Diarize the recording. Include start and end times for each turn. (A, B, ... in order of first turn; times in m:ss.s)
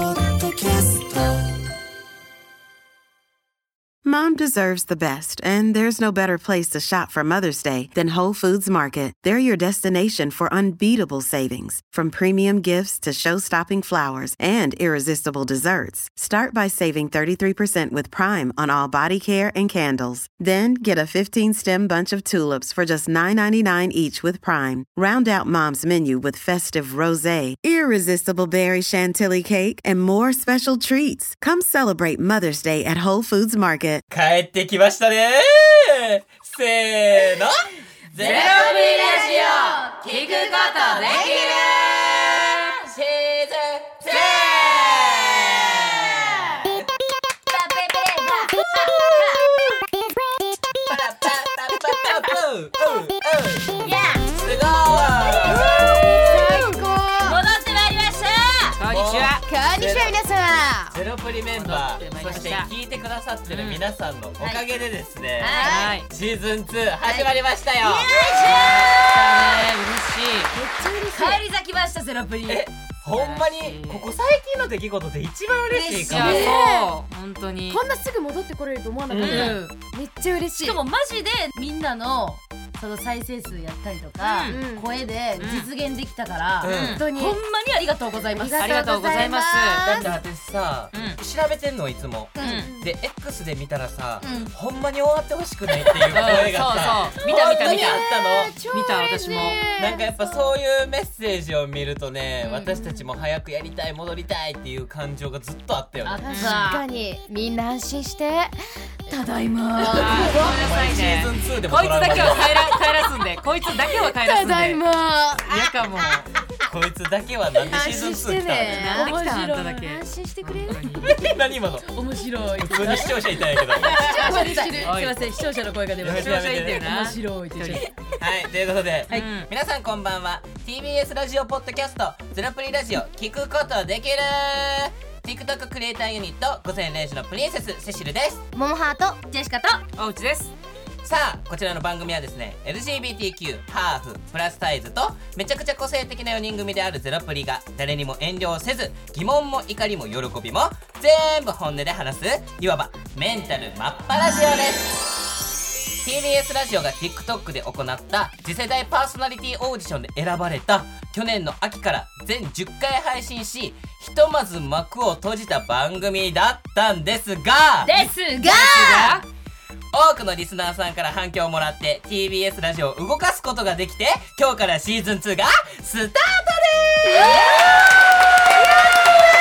0:00.4-0:01.1 A
0:04.0-0:34.0 A
0:34.1-0:46.9 B
0:38.2-0:41.8 C
0:38.2-0:39.0 D
0:40.0-0:41.4 D
0:41.2-0:41.6 E
0:42.4-0:42.9 C
0:44.1-0:45.0 C
0:47.5-0:49.4 C
0:50.9-0:55.9 B
0:53.8-0:54.2 C
0:55.3-0:56.6 C
0:55.4-0:57.4 E
0:57.2-0:58.8 C
0:58.8-0:59.4 D
0:58.9-1:00.2 B
0:59.4-1:01.0 E
1:00.9-1:09.0 B
1:01.6-1:02.7 D
1:03.5-1:03.8 D
1:04.4-1:04.6 C
1:05.4-1:05.9 C
1:05.6-1:06.0 E
1:05.6-1:06.1 D
1:07.0-1:09.6 C
1:08.6-1:10.5 D
1:10.5-1:11.4 E
1:11.1-1:12.7 C
1:12.5-1:16.4 B
1:13.1-1:14.1 D
1:15.7-1:16.6 C
1:16.1-1:17.8 D
1:16.2-1:16.9 E
1:17.7-1:20.8 E
1:19.1-1:19.6 B
1:19.2-1:19.8 C
1:19.2-1:19.6 D
1:20.6-1:28.8 C
1:24.2-1:24.9 E
1:25.4-1:25.7 D
1:26.6-1:27.0 D
1:26.6-1:27.4 E
1:26.6-1:27.0 B
1:28.3-1:30.2 E
1:28.6-1:30.2 D
1:29.8-1:38.6 B
1:30.9-1:31.2 D
1:32.4-1:32.9 E
1:32.4-1:32.7 D
1:34.2-1:34.5 E
1:36.1-1:38.0 D
1:37.1-1:40.5 E
1:38.7-1:39.6 D
1:39.7-1:46.2 B
1:42.5-1:43.0 E
1:46.0-1:47.0 C
1:46.2-1:48.6 E
1:46.3-1:46.7 D
1:49.1-1:50.6 E
1:49.7-1:50.3 C
1:49.9-1:54.8 D
1:50.2-1:52.6 B
1:52.1-1:52.9 E
1:53.6-1:56.4 E
1:55.4-1:56.3 D
1:56.6-1:58.8 B
1:57.5-2:01.0 E
1:58.6-2:01.2 D
1:58.9-1:59.9 C
2:01.0-2:01.9 B
2:01.9-2:07.9 C
2:02.6-2:03.9 B
2:03.8-2:04.9 E
2:04.1-2:05.1 D
2:06.0-2:06.9 B
2:06.2-2:07.9 D
2:08.2-2:18.4 B
2:09.1-2:09.5 D
2:18.5-2:19.2 E
2:19.3-2:19.8 C
2:20.0-2:20.5 D
2:21.0-2:35.0 B
2:36.0-2:48.0 B
2:47.8-2:48.8 C
2:48.4-2:49.2 E
2:48.4-2:49.2 D
2:49.9-2:57.8 B
2:57.2-2:57.7 C
2:57.2-2:57.8 E